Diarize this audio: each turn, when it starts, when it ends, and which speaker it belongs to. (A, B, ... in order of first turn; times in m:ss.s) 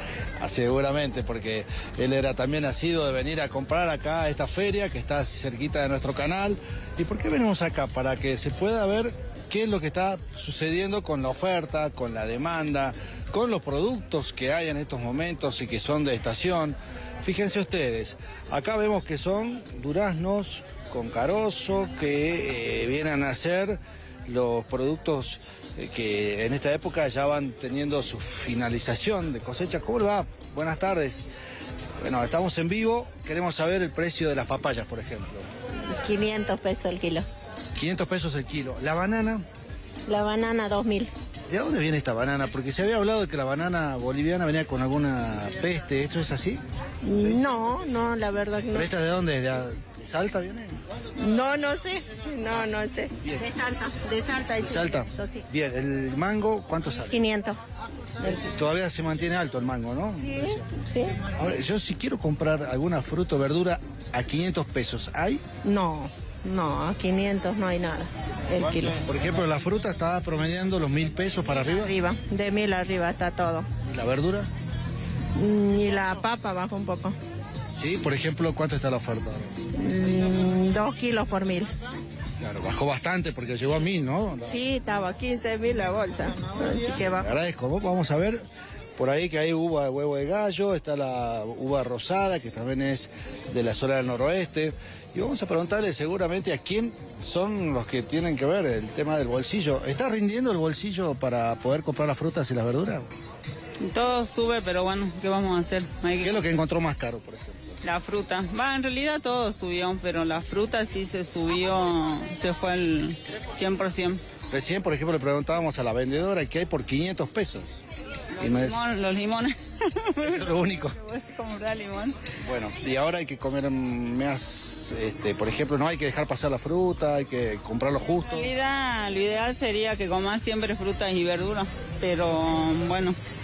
0:00.4-0:31.3 A
0:32.0-0:35.5 A
0:35.9-0:37.2 B
0:37.7-0:39.4 A
0:40.0-0:41.1 B
0:41.5-0:46.6 A
0:47.0-0:48.9 B
0:48.7-0:50.8 A
0:51.2-0:55.4 B
0:54.6-0:57.2 A
0:57.0-0:57.6 B
0:58.2-0:58.5 B
0:58.4-1:05.4 A
1:00.4-1:01.2 B
1:05.6-1:09.0 B
1:08.6-1:11.9 A
1:11.7-1:13.6 B
1:13.8-1:14.5 A
1:15.4-1:17.1 B
1:17.7-1:19.5 A
1:19.7-1:21.7 B
1:22.4-1:24.6 A
1:24.5-1:27.3 B
1:27.1-1:28.4 A
1:29.0-1:43.1 A
1:43.8-1:46.4 C
1:46.2-1:47.8 A
1:47.8-1:54.2 C
1:54.5-1:57.8 A
1:58.4-2:02.2 C
1:58.4-1:58.8 A
2:00.2-2:01.0 A
2:02.4-2:08.5 A
2:08.2-2:13.2 C